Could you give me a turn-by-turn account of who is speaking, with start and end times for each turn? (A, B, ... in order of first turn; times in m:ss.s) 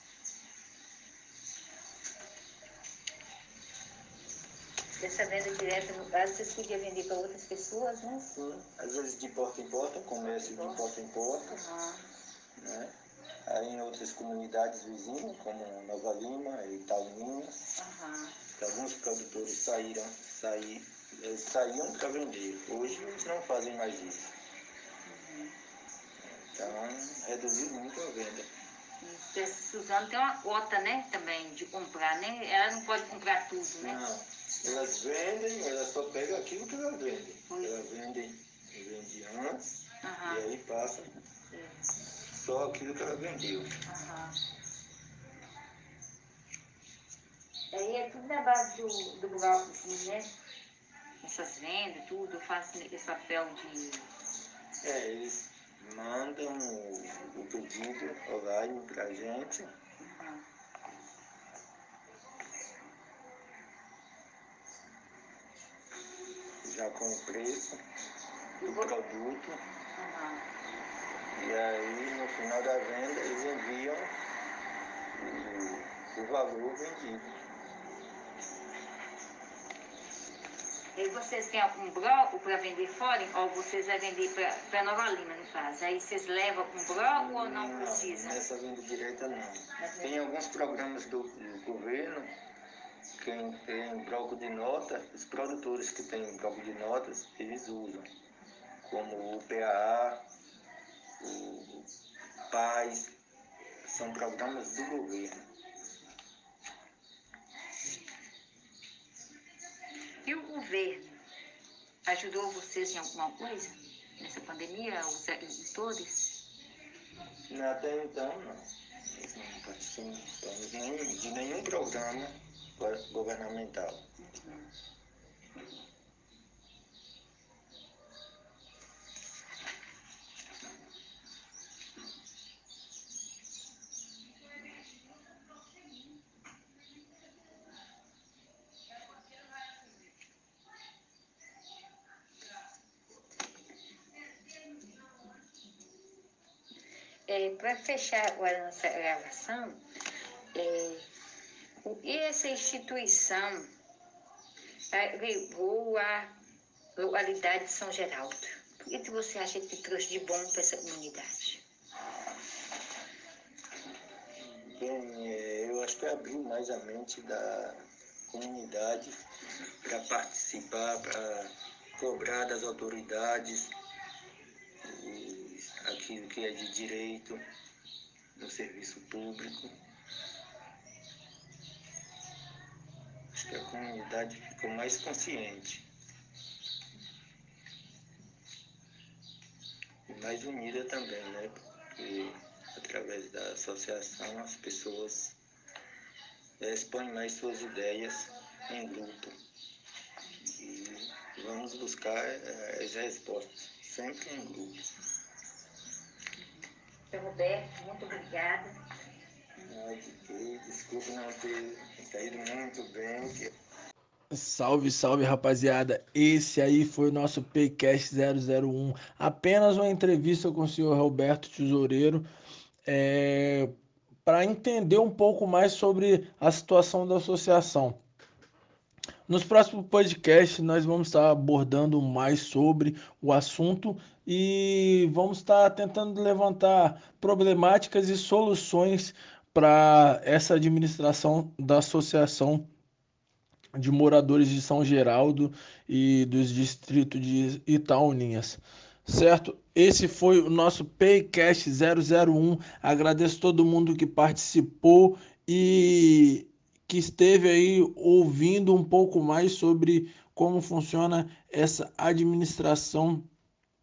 0:05.0-0:08.3 A
0:08.3-0:11.6 B
0:10.2-0:10.8 A
0:11.5-0:12.0 A
0:12.6-0:12.9 B
0:13.4-0:17.6 B
0:17.8-0:18.3 A
0:18.6-0:24.3 B
0:25.0-0:25.6 A
0:26.2-0:28.5 B
0:29.0-0:34.0 A
0:33.8-0:41.1 B
0:37.5-0:37.9 A
0:40.0-0:40.5 A
0:41.5-0:41.8 A
0:42.2-0:43.7 B
0:43.9-0:44.4 A
0:47.7-0:50.3 A
0:51.2-0:54.1 A
0:54.8-0:59.7 B
1:00.0-1:00.4 A
1:06.6-1:07.8 B
1:08.6-1:08.9 A
1:08.6-1:09.6 B
1:10.0-1:10.4 A
1:11.3-1:14.1 B
1:15.1-1:17.3 B
1:21.0-1:28.4 A
1:27.1-1:32.3 B
1:29.8-1:30.2 A
1:33.2-1:38.1 B
1:38.8-1:40.2 B
1:41.2-1:41.9 B
1:42.5-1:43.1 B
1:43.8-1:45.4 B
1:50.2-1:51.2 A
1:52.0-1:56.3 A
1:57.5-2:04.0 B
2:04.2-2:04.7 A
2:27.3-2:29.8 A
2:30.5-2:31.1 A
2:31.8-2:33.7 A
2:34.9-2:36.3 A
2:37.0-2:41.6 A
2:44.4-2:49.2 B
2:49.8-2:53.7 B
2:54.8-2:57.4 B
2:58.4-2:59.7 B
3:03.3-3:05.8 B
3:10.1-3:15.4 B
3:16.6-3:19.3 B
3:20.4-3:24.9 B
3:27.1-3:28.8 A
3:29.6-3:33.5 B
3:34.3-3:42.2 C
3:42.8-3:43.7 C
3:44.2-3:48.0 C
3:49.3-4:02.6 C
4:03.7-4:23.3 C